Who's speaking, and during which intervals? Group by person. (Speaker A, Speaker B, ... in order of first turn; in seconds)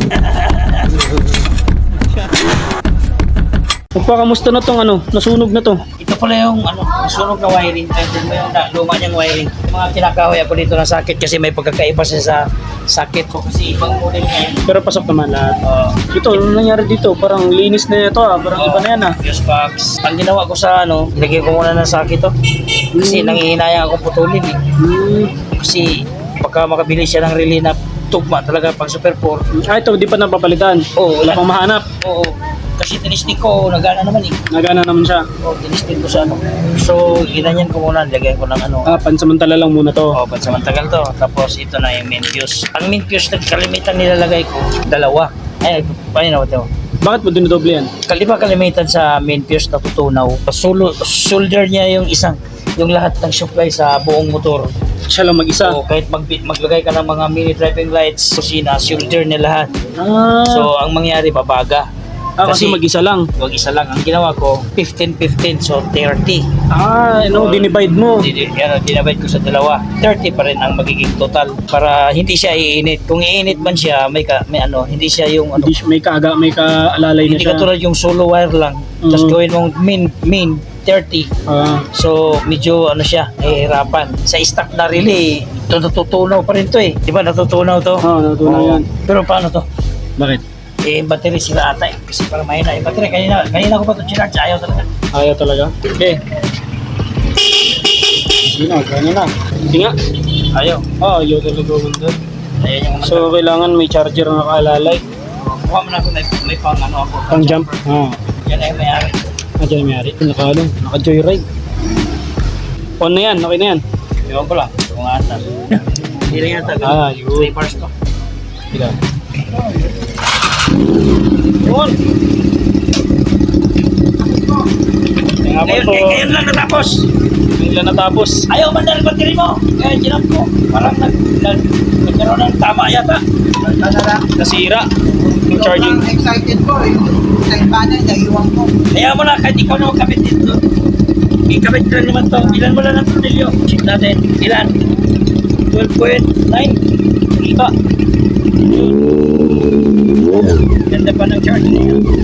Speaker A: 0.2-0.9, 6.0-14.6, 15.6-16.1, 18.5-22.3, 23.0-24.6, 25.5-29.4, 30.9-34.4, 35.4-38.9, 40.1-46.7, 48.0-54.7, 55.6-59.8, 60.5-61.9, 62.4-62.8, 63.4-66.5, 67.3-75.7, 77.2-81.3, 81.9-89.7, 90.8-94.9, 100.5-100.9, 102.6-103.3, 105.4-107.8, 108.3-109.2, 114.3-117.9, 125.6-127.1, 128.5-133.2, 138.9-140.6, 141.5-144.8, 145.7-146.8, 150.9-152.0
Speaker B: 4.0-5.8, 14.7-15.6, 16.1-19.2, 22.9-23.4, 24.8-25.4, 29.6-31.9, 34.5-35.3, 38.9-40.2, 47.0-47.9, 55.1-55.8, 60.0-60.7, 62.4-63.3, 66.7-68.3, 75.6-77.7, 79.0-79.4, 81.5-81.9, 88.0-88.9, 90.2-90.4, 95.1-96.2, 98.4-100.0, 101.0-102.2, 103.0-105.0, 107.3-108.2, 109.6-111.5, 113.0-113.8, 116.8-117.5, 118.7-119.0, 121.6-122.0, 125.4-126.3, 127.6-128.5, 134.4-134.9, 135.5-136.0, 147.4-147.7
Speaker C: 133.6-134.3, 135.3-138.7